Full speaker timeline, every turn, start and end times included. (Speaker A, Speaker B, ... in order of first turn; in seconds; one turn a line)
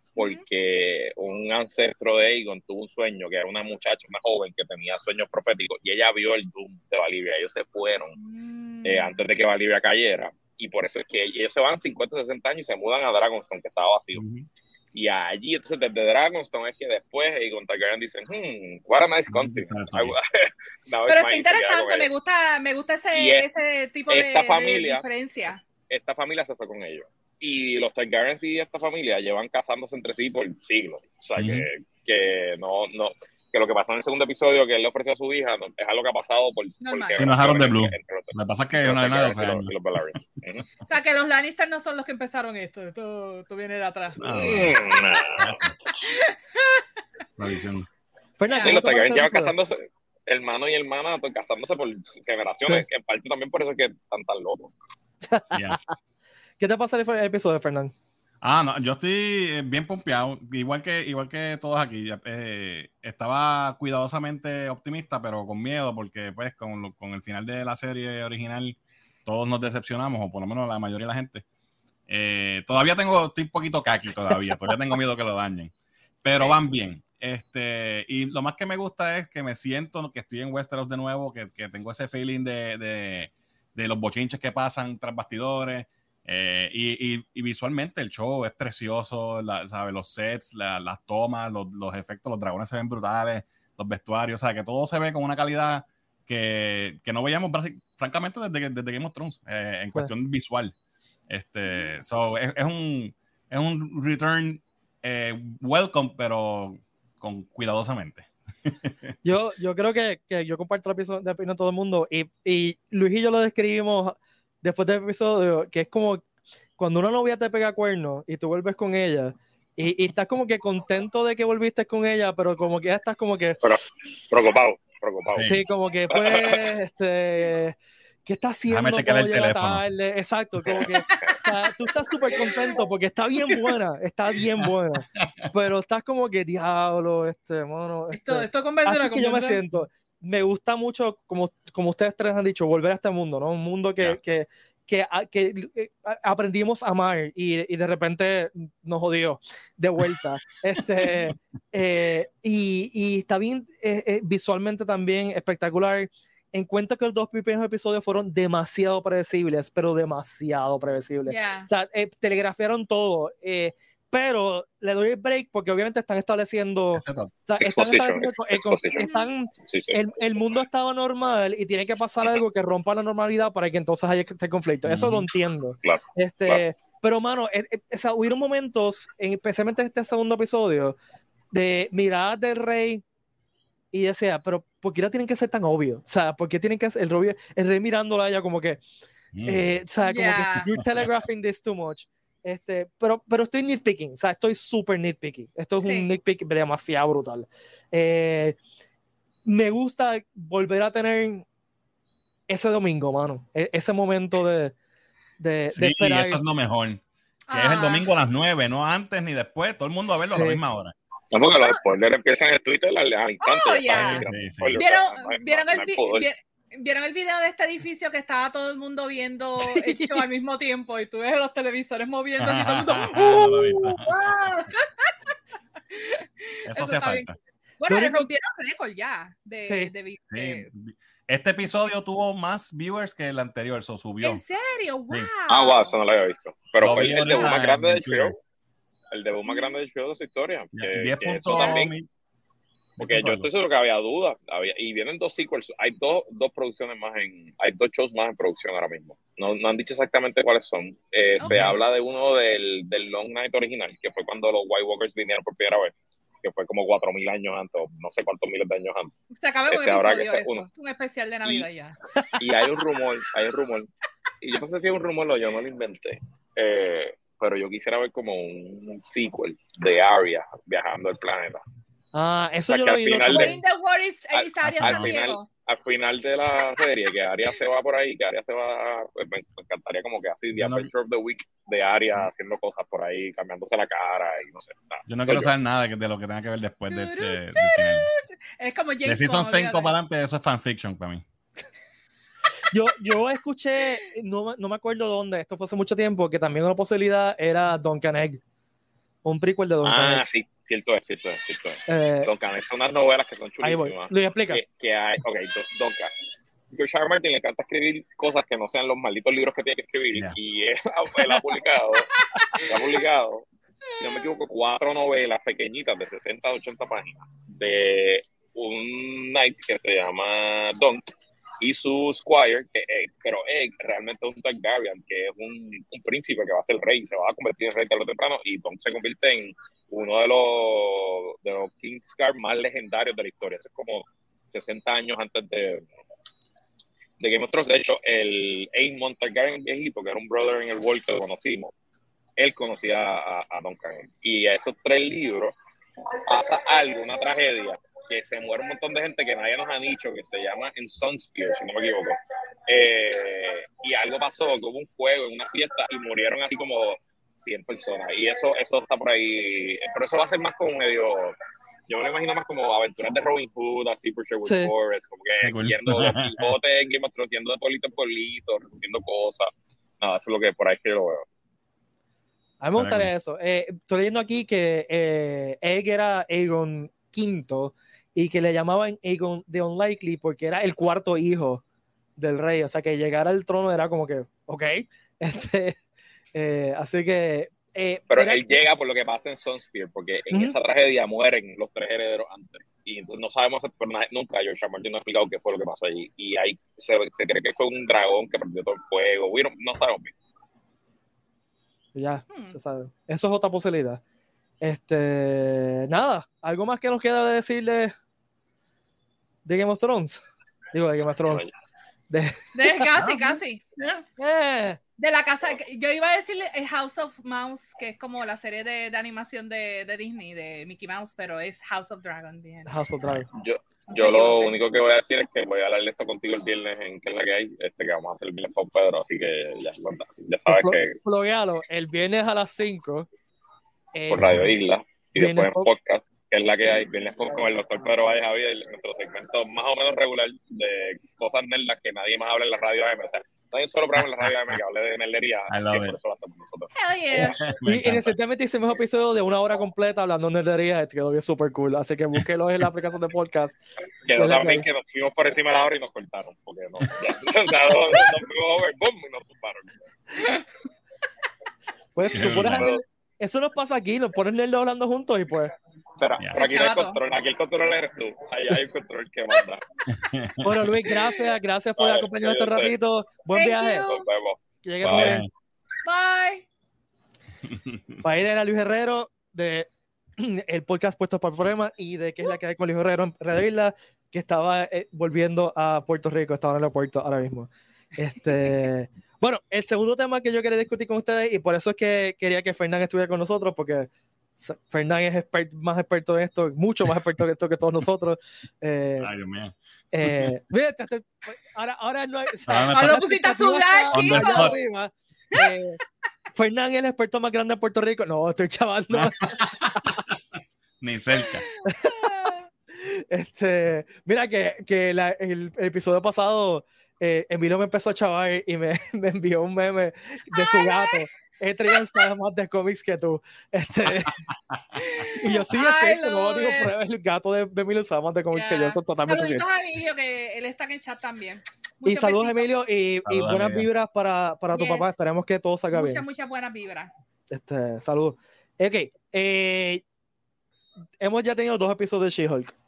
Speaker A: 0.1-8.2
Speaker B: 0.2-0.4
Speaker B: 8.2-9.2
Speaker A: 8.8-14.2
Speaker C: 14.1-14.5
Speaker A: 14.9-22.1
Speaker C: 19.3-20.1
Speaker B: 21.1-25.6
Speaker A: 23.1-23.5
Speaker A: 24.1-25.0
Speaker A: 25.9-40.7
Speaker C: 31.4-31.7
Speaker B: 36.8-37.3
Speaker C: 37.2-39.7
Speaker B: 40.9-45.4
Speaker C: 44.2-44.8
Speaker A: 44.2-45.6
Speaker C: 45.4-45.7
Speaker B: 46.0-46.8
Speaker C: 47.4-47.9
Speaker D: 48.4-49.5
Speaker B: 48.5-48.8
Speaker A: 48.6-54.7
Speaker D: 55.2-55.8
Speaker C: 55.5-55.8
Speaker D: 56.6-57.9
Speaker C: 58.4-71.4
Speaker C: 72.1-75.7
Speaker C: 76.2-100.7
Speaker C: 101.3-108.9
Speaker D: 109.2-116.2
Speaker D: 116.8-123.6
Speaker A: 123.6-126.7
Speaker C: 125.3-125.6
Speaker D: 125.4-181.0
Speaker C: 128.7-129.8
Speaker A: 130.7-131.4
Speaker B: 131.1-131.5
Speaker C: 135.2-135.5
Speaker B: 138.1-139.6
Speaker C: 151.0-151.3
Speaker B: 161.2-161.7
Speaker C: 166.9-167.3
Speaker A: 167.6-169.1
Speaker B: 169.0-169.3
Speaker A: 169.6-170.4
Speaker C: 174.8-175.3
Speaker A: 175.8-176.6
Speaker D: 181.5-183.0
Speaker D: 183.9-188.8
Speaker C: 189.3-189.6
Speaker D: 189.4-198.6
Speaker B: 190.0-190.7
Speaker B: 195.8-196.1
Speaker D: 199.4-201.4
Speaker D: 202.5-204.7
Speaker D: 205.4-206.4
Speaker C: 205.7-210.9
Speaker B: 207.5-208.1
Speaker D: 210.0-210.6
Speaker A: 211.3-216.3
Speaker B: 213.4-214.2
Speaker C: 213.9-214.8
Speaker B: 214.8-225.3
Speaker D: 219.6-220.2
Speaker C: 222.4-224.5
Speaker B: 225.9-230.7
Speaker C: 226.7-227.3
Speaker D: 227.9-228.3
Speaker D: 229.6-229.9
Speaker C: 230.3-234.4
Speaker B: 234.2-235.9
Speaker A: 235.5-238.3
Speaker C: 236.8-238.3
Speaker A: 239.1-241.9
Speaker B: 239.5-239.7
Speaker C: 240.7-242.1
Speaker B: 241.5-241.8
Speaker C: 243.0-243.5
Speaker A: 243.0-259.1
Speaker B: 251.4-251.8
Speaker C: 251.4-251.7
Speaker B: 259.3-262.0
Speaker A: 259.7-260.6
Speaker A: 262.4-263.9
Speaker A: 264.4-271.6
Speaker D: 272.1-273.6
Speaker A: 272.7-273.5
Speaker B: 273.2-275.5
Speaker A: 274.3-285.5
Speaker C: 274.6-275.1
Speaker C: 280.6-280.9
Speaker C: 285.1-288.1
Speaker B: 286.9-289.9
Speaker C: 289.1-291.2
Speaker D: 292.7-298.4
Speaker D: 299.2-300.2
Speaker A: 299.8-306.1
Speaker D: 301.9-302.3
Speaker D: 303.6-304.6
Speaker A: 306.7-313.5
Speaker B: 312.3-312.6
Speaker A: 314.0-321.0
Speaker A: 321.6-335.8
Speaker A: 337.2-341.7
Speaker A: 342.4-345.5
Speaker A: 346.2-352.1
Speaker A: 352.7-361.3
Speaker A: 361.9-371.2
Speaker D: 364.4-364.7
Speaker C: 365.4-366.5
Speaker D: 372.6-381.6
Speaker C: 372.8-373.1
Speaker D: 382.2-385.8
Speaker D: 386.3-388.6
Speaker A: 388.1-400.1
Speaker D: 401.9-404.0
Speaker B: 402.3-402.6
Speaker D: 404.6-407.9
Speaker D: 409.4-411.5
Speaker A: 411.2-411.5
Speaker D: 412.1-412.9
Speaker B: 412.5-414.0
Speaker C: 412.9-413.4
Speaker D: 414.2-414.8
Speaker B: 415.0-422.9
Speaker D: 422.7-423.3
Speaker A: 423.3-431.0
Speaker B: 423.9-424.6
Speaker D: 430.5-433.1
Speaker D: 433.9-434.4
Speaker A: 434.1-447.4
Speaker D: 435.2-435.7
Speaker C: 444.0-444.5
Speaker C: 445.5-445.9
Speaker B: 446.7-447.4
Speaker C: 447.2-448.1
Speaker D: 447.6-453.6
Speaker A: 454.0-459.8
Speaker D: 454.1-454.6
Speaker D: 461.9-465.5
Speaker C: 462.1-462.7
Speaker A: 462.1-462.8
Speaker A: 466.0-469.6
Speaker B: 466.3-467.0
Speaker C: 469.9-470.7
Speaker D: 470.4-473.9
Speaker A: 471.8-472.7
Speaker B: 473.3-474.0
Speaker A: 473.9-475.2
Speaker D: 474.6-475.2
Speaker C: 474.9-475.3
Speaker B: 475.9-476.4
Speaker C: 477.5-477.8
Speaker D: 478.0-493.9
Speaker D: 494.4-499.1
Speaker C: 499.0-500.4
Speaker D: 499.9-505.8
Speaker C: 502.5-503.0
Speaker B: 502.7-504.6
Speaker C: 503.9-504.6
Speaker D: 506.3-510.0
Speaker C: 508.9-511.4
Speaker B: 511.1-512.5
Speaker D: 511.7-524.2
Speaker B: 520.3-521.0
Speaker B: 521.7-522.1
Speaker C: 523.8-524.8
Speaker B: 524.8-526.7
Speaker D: 525.1-529.5
Speaker B: 528.3-532.5
Speaker D: 531.8-536.0
Speaker C: 533.0-533.7
Speaker B: 534.5-534.9
Speaker B: 535.7-536.9
Speaker D: 537.3-539.8
Speaker D: 541.0-542.5